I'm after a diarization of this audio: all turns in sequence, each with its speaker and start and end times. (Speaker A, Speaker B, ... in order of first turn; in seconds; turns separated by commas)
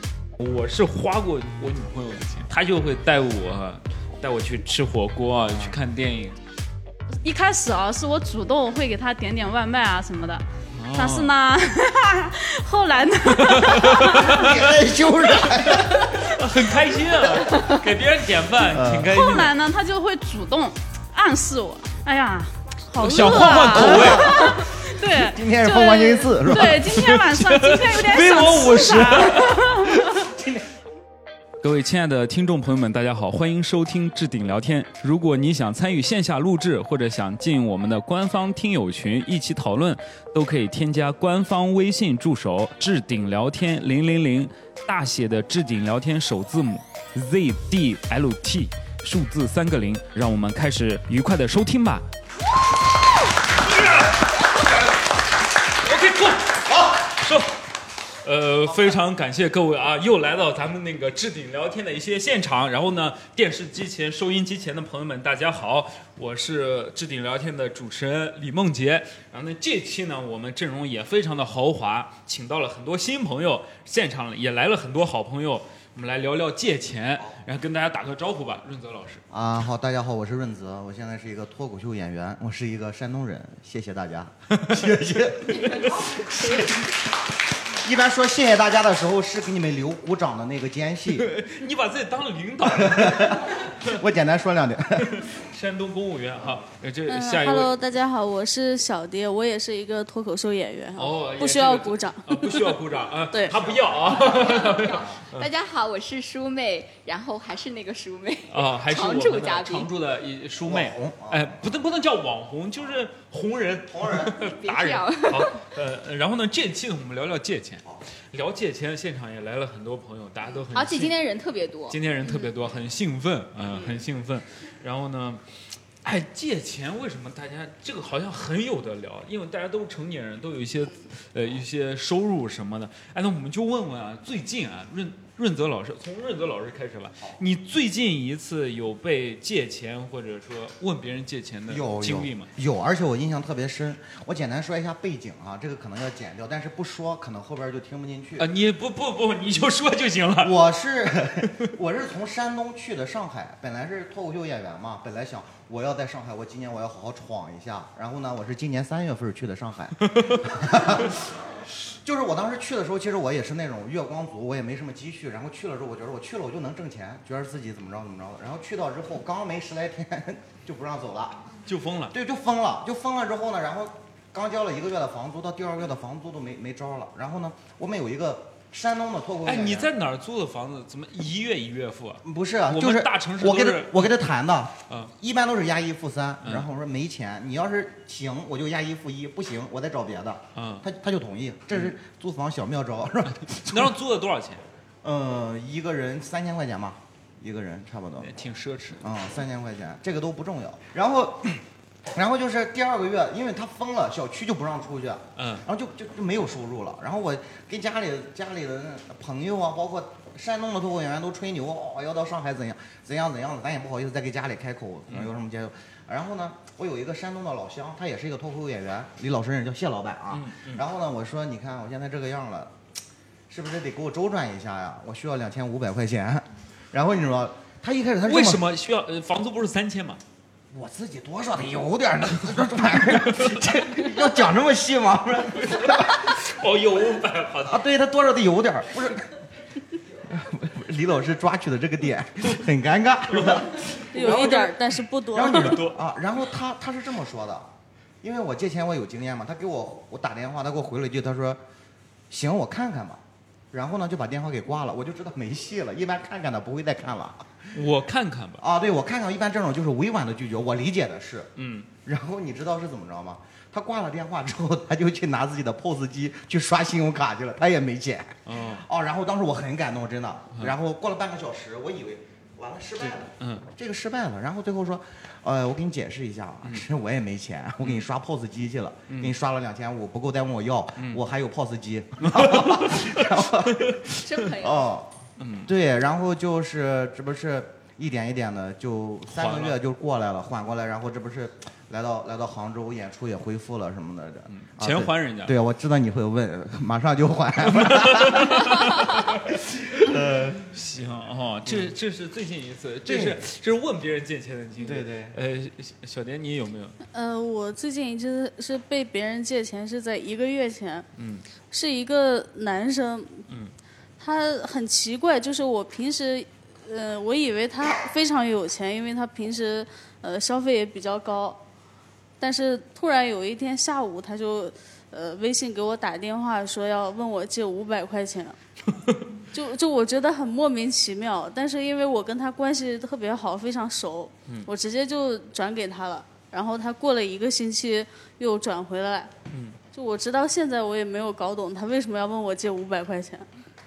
Speaker A: 0.4-6.3, Speaker B: 7.2-14.4, Speaker A: 10.8-11.3, Speaker A: 13.3-14.6, Speaker C: 14.3-16.4, Speaker A: 16.3-19.5, Speaker B: 17.4-17.8, Speaker C: 18.7-19.2, Speaker B: 19.1-30.1, Speaker A: 23.0-24.5, Speaker C: 23.4-27.1, Speaker A: 26.9-29.7, Speaker C: 29.1-29.5, Speaker C: 30.1-30.6, Speaker A: 31.6-52.0, Speaker A: 53.7-54.1, Speaker A: 55.8-57.5, Speaker A: 58.2-79.2, Speaker C: 79.3-86.9, Speaker C: 87.8-91.3, Speaker A: 91.2-93.5, Speaker C: 92.7-95.2, Speaker A: 95.1-97.7, Speaker D: 97.1-102.7, Speaker A: 101.0-105.5, Speaker C: 103.5-103.9, Speaker E: 104.1-109.9, Speaker A: 108.5-121.2, Speaker C: 110.6-111.7, Speaker C: 113.9-114.4, Speaker E: 114.5-115.5, Speaker E: 120.5-122.5, Speaker A: 121.9-125.4, Speaker A: 126.0-142.5, Speaker C: 141.7-148.4, Speaker A: 148.4-150.6, Speaker C: 150.4-161.2, Speaker C: 161.9-171.4, Speaker A: 171.7-172.1, Speaker C: 172.1-179.9, Speaker A: 179.4-184.2, Speaker C: 182.2-193.9, Speaker A: 190.5-190.8, Speaker A: 193.5-194.6, Speaker C: 195.0-198.3, Speaker A: 198.2-199.0, Speaker C: 199.0-201.6, Speaker C: 202.1-222.7, Speaker A: 205.3-205.7, Speaker A: 220.3-220.8, Speaker C: 223.5-228.6, Speaker A: 228.2-230.2, Speaker C: 230.7-236.2, Speaker A: 235.8-237.8, Speaker C: 237.7-239.4, Speaker C: 240.3-244.7, Speaker D: 244.1-245.8, Speaker A: 244.2-244.7, Speaker C: 245.3-247.7, Speaker A: 245.4-246.0, Speaker C: 248.2-251.6, Speaker C: 252.3-253.2, Speaker C: 253.7-257.7, Speaker A: 257.7-258.6, Speaker C: 258.6-261.5, Speaker A: 261.6-261.9, Speaker C: 262.0-285.1, Speaker A: 268.5-268.8, Speaker A: 273.0-273.6, Speaker A: 279.1-279.3, Speaker A: 282.2-283.1, Speaker E: 284.2-284.9, Speaker A: 285.4-285.7, Speaker C: 285.6-300.7, Speaker A: 289.3-289.8, Speaker A: 294.5-295.6, Speaker A: 297.6-299.4, Speaker A: 300.7-306.9, Speaker C: 303.1-303.4, Speaker C: 304.8-305.3, Speaker D: 307.1-311.1, Speaker A: 311.2-311.4, Speaker D: 311.7-313.4, Speaker D: 314.2-321.6, Speaker D: 322.4-328.6, Speaker D: 329.5-339.3, Speaker A: 339.5-339.8, Speaker D: 339.9-343.5